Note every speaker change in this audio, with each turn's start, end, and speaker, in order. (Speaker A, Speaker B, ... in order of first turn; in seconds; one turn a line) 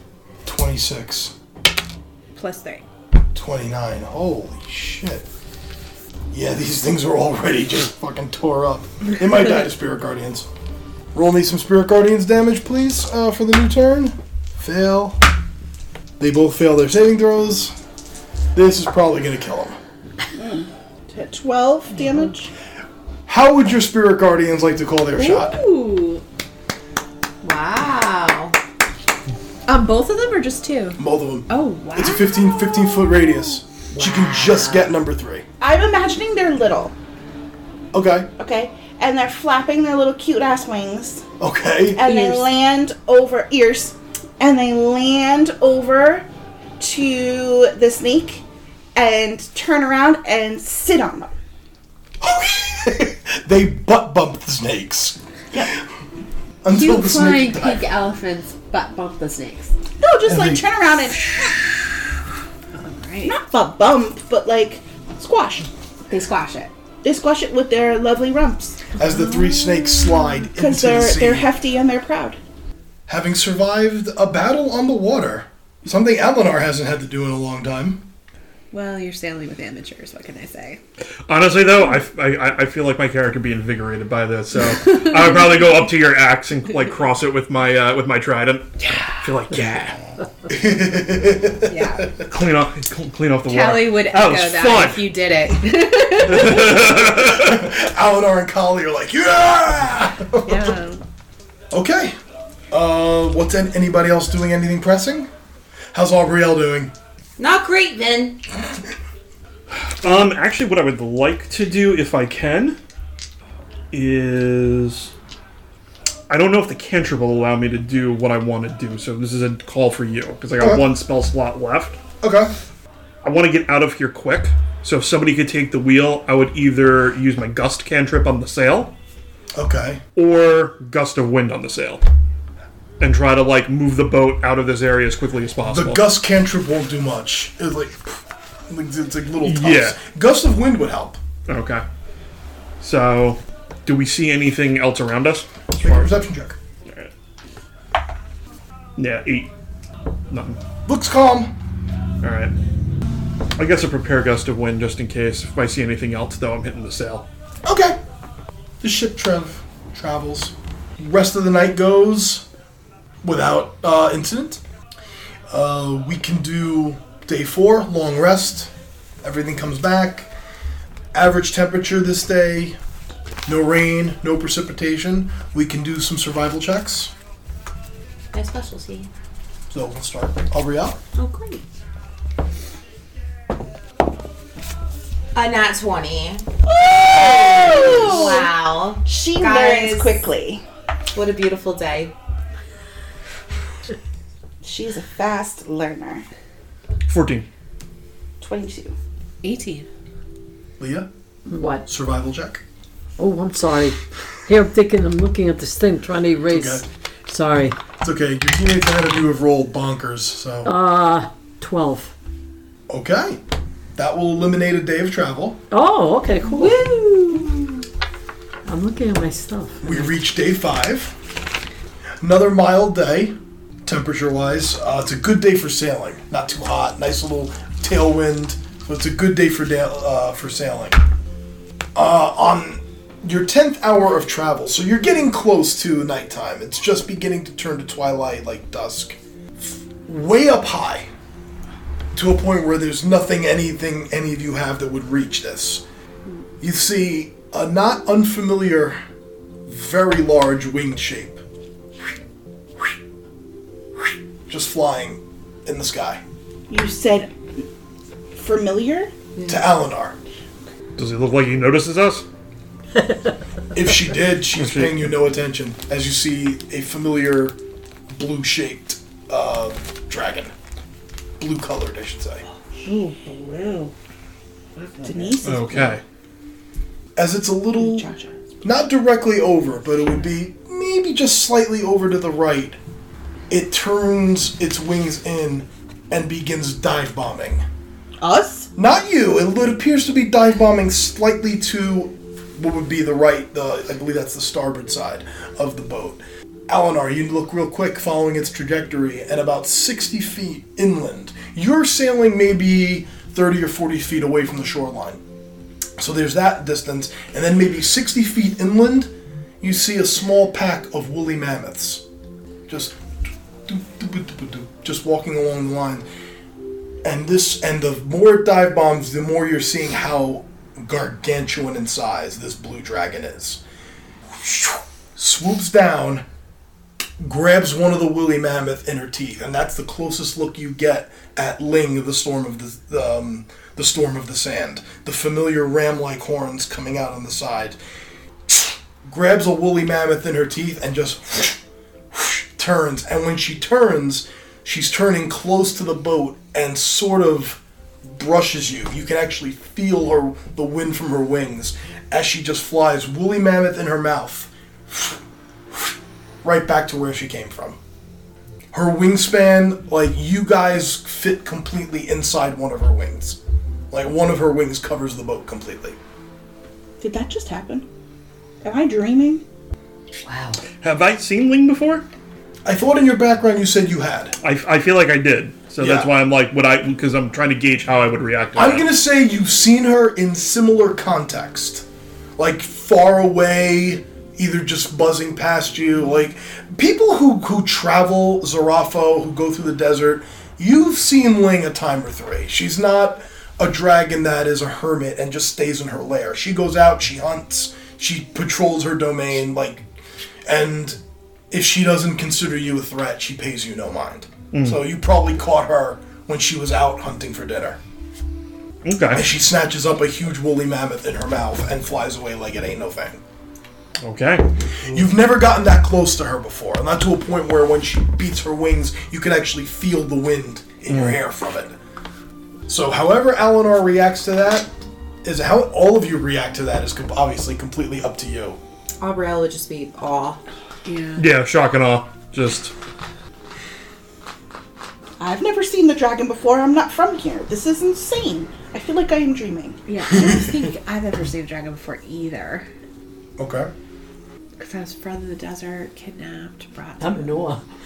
Speaker A: 0.5-1.3
Speaker B: 2.3-2.9
Speaker A: 3.3-5.2
Speaker A: 6.3-10.5
Speaker A: 11.1-15.2
Speaker A: 16.2-17.7
Speaker A: 18.5-19.8
Speaker C: 20.3-22.5
Speaker A: 23.3-25.6
Speaker B: 25.1-26.2
Speaker D: 27.4-28.6
Speaker B: 29.6-32.7
Speaker A: 31.0-35.4
Speaker D: 33.9-34.9
Speaker C: 35.6-36.9
Speaker A: 37.9-38.3
Speaker C: 38.4-41.2
Speaker A: 41.4-42.2
Speaker C: 41.9-46.3
Speaker B: 42.0-42.5
Speaker C: 46.8-48.4
Speaker C: 48.9-51.3
Speaker A: 52.2-55.8
Speaker A: 56.6-57.9
Speaker B: 56.7-59.7
Speaker C: 60.0-61.5
Speaker A: 60.2-60.6
Speaker B: 62.7-63.4
Speaker C: 63.2-65.7
Speaker B: 66.1-66.7
Speaker C: 67.0-68.9
Speaker A: 69.0-71.5
Speaker C: 70.5-72.4
Speaker A: 73.1-78.0
Speaker B: 78.7-80.8
Speaker E: 81.3-90.0
Speaker A: 90.5-92.3
Speaker B: 91.7-92.1
Speaker E: 92.2-95.1
Speaker B: 93.5-96.7
Speaker E: 96.1-97.7
Speaker A: 96.7-100.8
Speaker B: 100.4-101.0
Speaker A: 101.7-102.2
Speaker A: 102.7-105.3
Speaker A: 105.9-106.9
Speaker D: 107.4-108.4
Speaker E: 109.7-112.8
Speaker E: 113.9-115.1
Speaker E: 116.3-122.0
Speaker A: 120.6-120.9
Speaker A: 122.2-122.5
Speaker E: 123.2-128.9
Speaker A: 129.5-130.0
Speaker E: 130.2-132.0
Speaker E: 133.0-136.0
Speaker A: 135.6-141.2
Speaker E: 139.4-140.0
Speaker E: 141.5-141.8
Speaker E: 142.8-146.1
Speaker A: 145.7-146.6
Speaker E: 146.8-147.1
Speaker E: 148.9-149.5
Speaker E: 150.3-150.6
Speaker A: 150.8-151.5
Speaker E: 152.2-152.5
Speaker E: 153.6-157.2
Speaker A: 157.6-158.0
Speaker A: 158.8-162.4
Speaker A: 163.2-164.6
Speaker A: 165.5-168.7
Speaker A: 169.2-170.3
Speaker A: 171.1-172.8
Speaker A: 173.4-177.1
Speaker D: 178.3-179.1
Speaker A: 179.7-181.0
Speaker D: 181.2-181.6
Speaker D: 185.3-186.5
Speaker C: 186.7-188.5
Speaker D: 187.0-190.2
Speaker C: 189.0-190.6
Speaker D: 191.1-192.1
Speaker C: 194.6-196.2
Speaker E: 197.1-197.5
Speaker C: 198.4-198.9
Speaker B: 199.4-199.9
Speaker A: 200.8-201.1
Speaker F: 201.5-201.8
Speaker A: 201.8-202.6
Speaker F: 203.2-207.8
Speaker A: 206.5-206.8
Speaker A: 208.0-210.7
Speaker F: 210.6-212.1
Speaker A: 212.9-213.4
Speaker A: 213.9-215.6
Speaker F: 215.7-216.8
Speaker D: 216.6-217.6
Speaker F: 218.7-220.1
Speaker A: 219.8-221.2
Speaker A: 222.2-231.0
Speaker A: 231.9-241.1
Speaker A: 242.1-245.8
Speaker A: 246.6-249.0
Speaker A: 249.7-251.4
Speaker A: 254.5-256.2
Speaker C: 256.7-257.6
Speaker C: 258.3-259.1
Speaker A: 259.4-260.2
Speaker E: 261.0-262.2
Speaker A: 263.7-267.6
Speaker E: 264.5-265.1
Speaker A: 268.1-270.5
Speaker A: 271.4-272.4
Speaker B: 272.8-273.9
Speaker B: 274.8-275.4
Speaker C: 275.0-276.0
Speaker E: 275.4-276.0
Speaker A: 277.1-278.1
Speaker C: 277.8-278.4
Speaker A: 278.6-282.8
Speaker A: 283.5-287.6
Speaker C: 288.2-288.7
Speaker A: 288.8-305.2
Speaker A: 306.0-312.0
Speaker A: 312.7-313.0
Speaker A: 313.7-316.1
Speaker A: 317.0-323.6
Speaker A: 324.3-326.2
Speaker A: 327.2-337.8
Speaker A: 338.5-341.6
Speaker A: 342.1-357.8
Speaker A: 358.7-363.4
Speaker A: 363.9-366.0
Speaker C: 367.0-367.9
Speaker C: 368.6-369.4
Speaker D: 370.3-370.6
Speaker E: 370.8-372.0
Speaker A: 372.6-374.4
Speaker E: 374.4-378.9
Speaker A: 375.8-376.1
Speaker A: 378.5-381.9
Speaker A: 382.4-399.9
Speaker A: 400.4-401.0
Speaker A: 401.5-407.8
Speaker E: 404.5-404.8
Speaker E: 408.8-409.3
Speaker A: 409.1-413.2
Speaker E: 414.0-414.5
Speaker A: 414.9-421.7
Speaker E: 420.9-421.2
Speaker A: 422.7-424.7
Speaker A: 425.2-428.6
Speaker D: 429.0-430.4
Speaker B: 430.9-431.2
Speaker E: 431.2-432.7
Speaker C: 435.2-439.8
Speaker B: 439.9-442.7
Speaker A: 443.4-443.7
Speaker B: 444.6-447.4
Speaker F: 447.0-447.6